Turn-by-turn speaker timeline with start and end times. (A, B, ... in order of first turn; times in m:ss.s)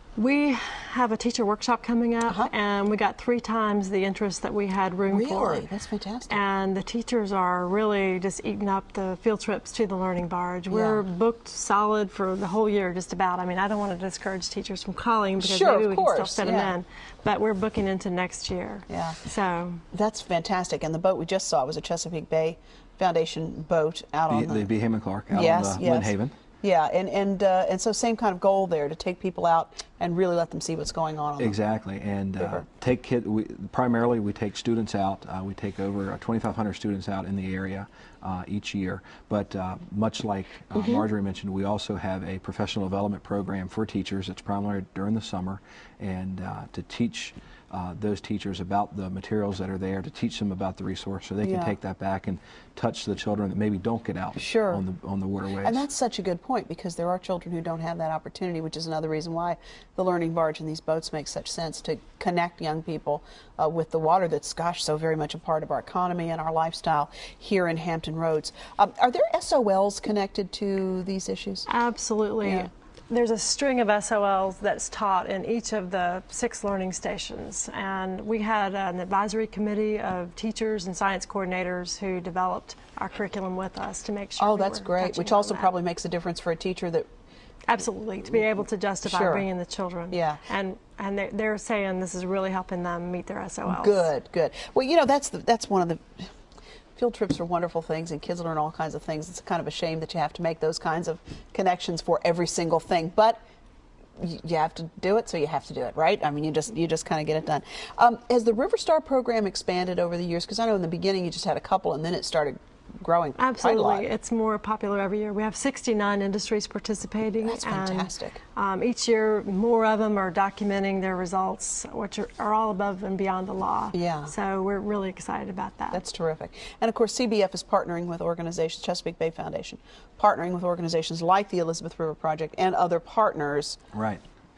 0:00.2-0:05.6 A
0:05.1-0:06.4 B
0:06.3-0:19.8 A
0:10.7-0:11.0 B
0:15.4-0:16.7 B
0:18.9-0:19.2 B
0:19.9-0:24.7 B
0:24.3-0:26.4 C
0:25.3-0:31.6 B
0:31.4-0:55.9 C
0:40.8-0:41.0 B
0:51.4-0:51.7 B
0:54.4-0:54.8 B
0:55.6-1:11.6 B
1:11.7-1:25.7 A
1:12.4-1:12.7 B
1:24.4-1:27.1 B
1:27.7-1:34.1 A
1:29.0-1:29.5 B
1:30.1-1:30.4 B
1:33.7-1:36.3 B
1:37.0-1:43.4 B
1:44.2-1:54.1 B
1:53.4-2:06.0 A
1:57.4-1:58.4 B
2:03.9-2:04.3 B
2:05.9-2:13.8 B
2:13.9-2:14.2 C